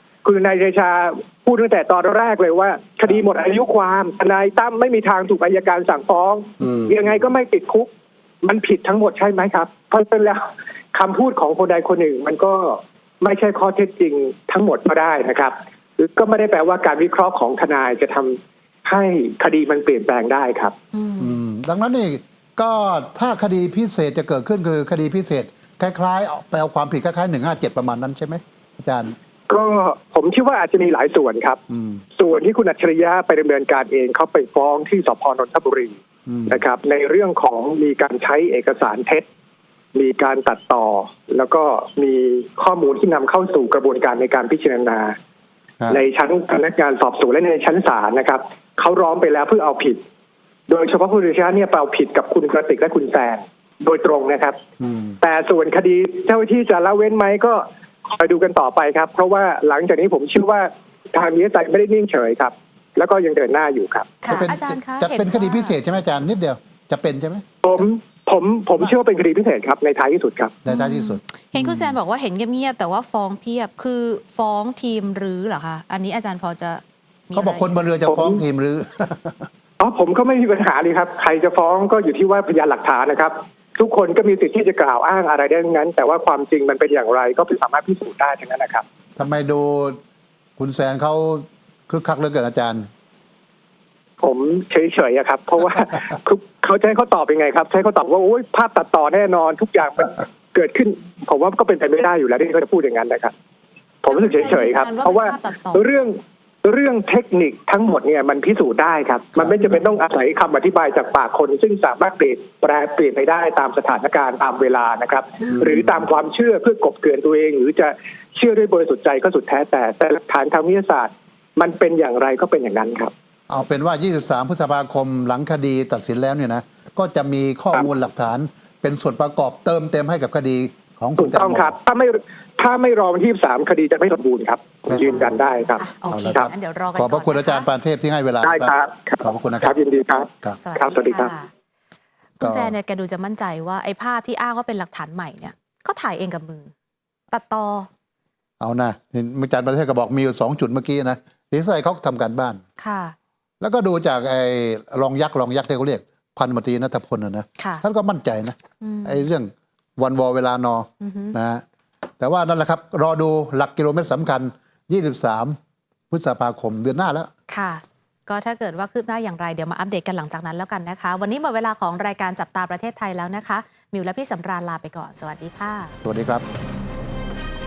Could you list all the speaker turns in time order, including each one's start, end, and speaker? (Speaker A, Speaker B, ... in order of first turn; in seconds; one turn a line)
Speaker A: 0.2-7.9
Speaker B: 6.6-6.9
Speaker A: 8.4-20.8
Speaker C: 20.9-21.3
Speaker B: 21.2-29.1
Speaker A: 29.5-31.6
Speaker B: 31.7-32.0
Speaker A: 32.2-36.0
Speaker B: 36.3-36.6
Speaker A: 36.5-39.3
Speaker A: 40.0-45.2
Speaker A: 45.9-50.0
Speaker A: 50.7-54.6
Speaker B: 54.8-55.2
Speaker A: 55.2-64.2
Speaker C: 64.2-65.7
Speaker B: 64.3-67.4
Speaker A: 67.6-70.5
Speaker B: 70.6-71.9
Speaker C: 70.7-77.7
Speaker B: 77.3-79.5
Speaker A: 78.1-78.4
Speaker A: 79.8-88.8
Speaker B: 89.2-90.0
Speaker B: 90.6-92.9
Speaker A: 94.2-103.3
Speaker A: 104.0-123.1
Speaker C: 104.1-106.1
Speaker B: 123.5-131.8
Speaker A: 131.2-135.9
Speaker B: 134.9-135.3
Speaker C: 135.8-137.7
Speaker B: 136.1-139.8
Speaker A: 138.4-141.3
Speaker C: 140.6-141.5
Speaker B: 142.4-142.7
Speaker C: 142.4-146.7
Speaker C: 147.3-147.9
Speaker B: 148.6-152.6
Speaker C: 152.8-153.2
Speaker B: 153.6-161.6
Speaker C: 157.6-157.8
Speaker C: 158.8-159.2
Speaker C: 161.0-161.4
Speaker B: 162.2-165.6
Speaker B: 166.1-167.3
Speaker C: 167.5-175.9
Speaker B: 176.0-176.5